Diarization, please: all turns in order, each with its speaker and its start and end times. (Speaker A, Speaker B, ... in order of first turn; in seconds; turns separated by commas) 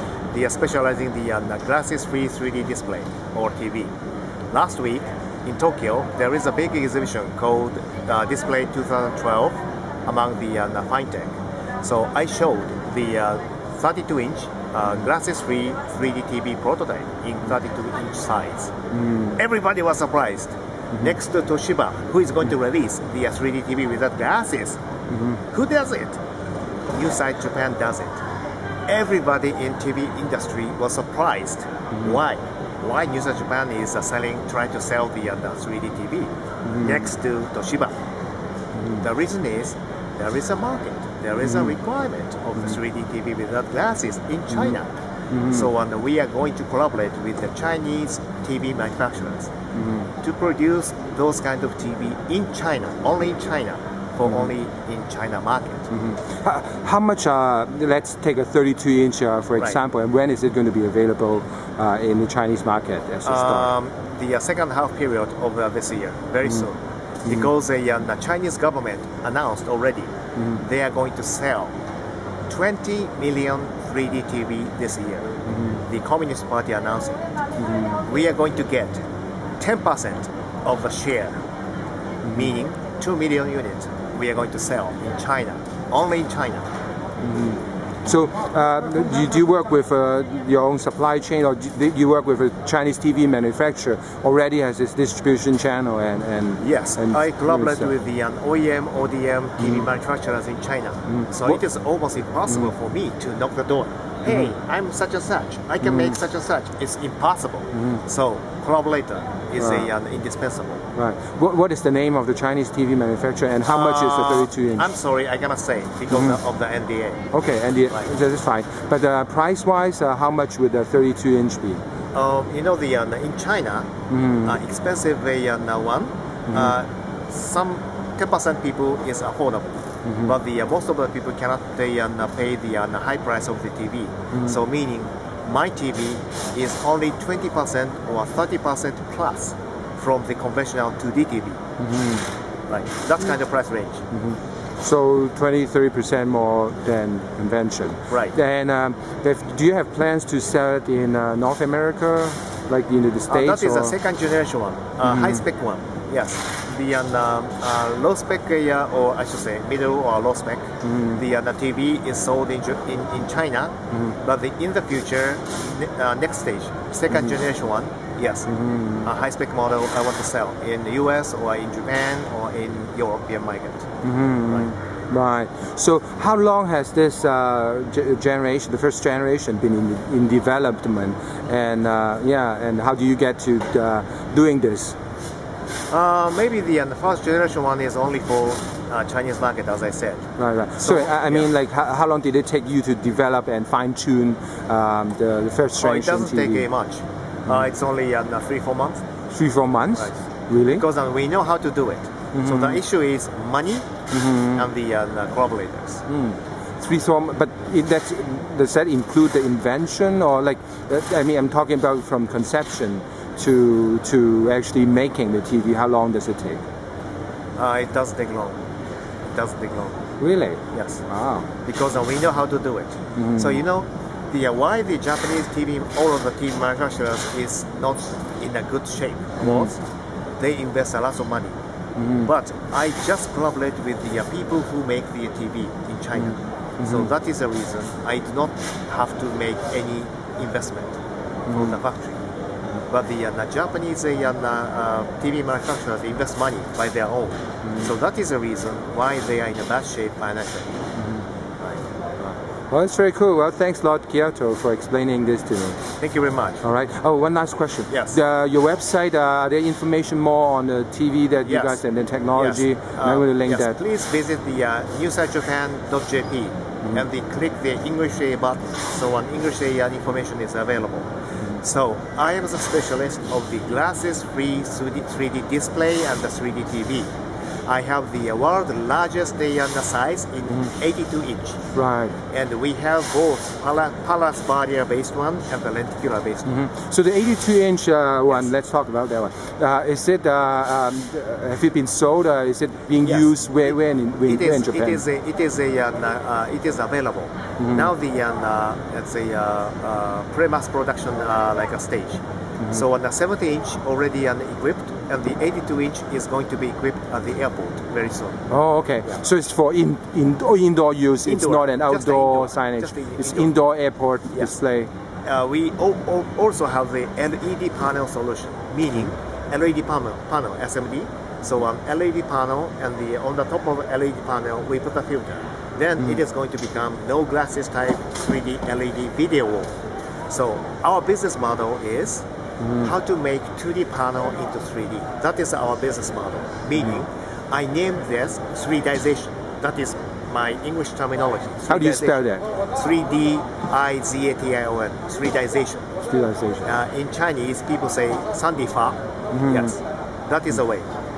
Speaker A: 0.3-3.9, Speaker A: 4.5-18.7, Speaker B: 19.1-19.3, Speaker A: 19.3-24.8, Speaker A: 25.4-26.2, Speaker A: 26.9-28.2, Speaker A: 28.9-37.9, Speaker B: 36.7-37.0, Speaker A: 39.0-44.9, Speaker B: 41.4-41.7, Speaker B: 45.3-45.7, Speaker A: 45.4-49.5, Speaker B: 49.8-50.1, Speaker A: 50.2-55.9, Speaker B: 55.9-63.7, Speaker A: 63.2-71.7, Speaker A: 72.5-77.2, Speaker A: 77.9-79.0, Speaker A: 79.6-81.4, Speaker A: 82.3-86.7, Speaker B: 87.2-97.9, Speaker A: 96.6-110.8, Speaker B: 99.6-99.8, Speaker B: 101.1-101.6, Speaker B: 105.8-106.1, Speaker B: 107.7-108.0, Speaker B: 109.6-109.9, Speaker B: 110.9-114.9, Speaker A: 113.6-117.3, Speaker B: 116.1-116.4, Speaker B: 117.3-121.8, Speaker A: 122.1-123.9, Speaker B: 124.1-124.6, Speaker A: 124.4-129.7, Speaker B: 126.5-126.7, Speaker A: 130.2-141.6, Speaker B: 141.8-142.3, Speaker A: 142.7-144.0, Speaker B: 144.1-153.9, Speaker A: 148.1-148.3, Speaker A: 153.3-168.5, Speaker B: 155.0-155.4, Speaker B: 160.8-161.2, Speaker B: 168.5-169.1, Speaker A: 169.0-173.9, Speaker B: 174.0-184.9, Speaker A: 185.9-190.2, Speaker B: 190.4-196.7, Speaker A: 190.8-191.5, Speaker A: 195.8-199.0, Speaker B: 199.3-200.8, Speaker A: 200.7-203.9, Speaker B: 202.3-202.8, Speaker B: 204.1-204.7, Speaker A: 204.5-206.0, Speaker B: 206.1-216.6, Speaker A: 217.6-218.6, Speaker A: 219.3-220.0, Speaker B: 220.2-221.5, Speaker A: 220.7-221.0, Speaker A: 221.6-229.8, Speaker B: 223.2-223.6, Speaker B: 229.4-229.7, Speaker A: 230.4-231.5, Speaker B: 232.0-232.3, Speaker A: 232.2-241.0, Speaker B: 236.2-237.0, Speaker B: 241.5-241.8, Speaker A: 241.5-242.2, Speaker A: 242.9-250.8, Speaker B: 252.7-255.8, Speaker A: 256.0-256.6, Speaker B: 256.6-263.8, Speaker A: 257.9-258.2, Speaker A: 261.4-261.8, Speaker A: 262.3-277.1, Speaker A: 277.7-281.6, Speaker B: 281.7-282.1, Speaker A: 282.3-286.5, Speaker B: 286.4-295.0, Speaker A: 293.0-308.5, Speaker B: 308.5-314.9, Speaker A: 311.2-313.5, Speaker A: 315.2-329.7, Speaker A: 330.3-332.2, Speaker B: 332.6-332.9, Speaker A: 332.8-345.9, Speaker B: 341.7-342.4, Speaker B: 346.1-346.6, Speaker A: 346.6-350.9, Speaker B: 349.3-349.7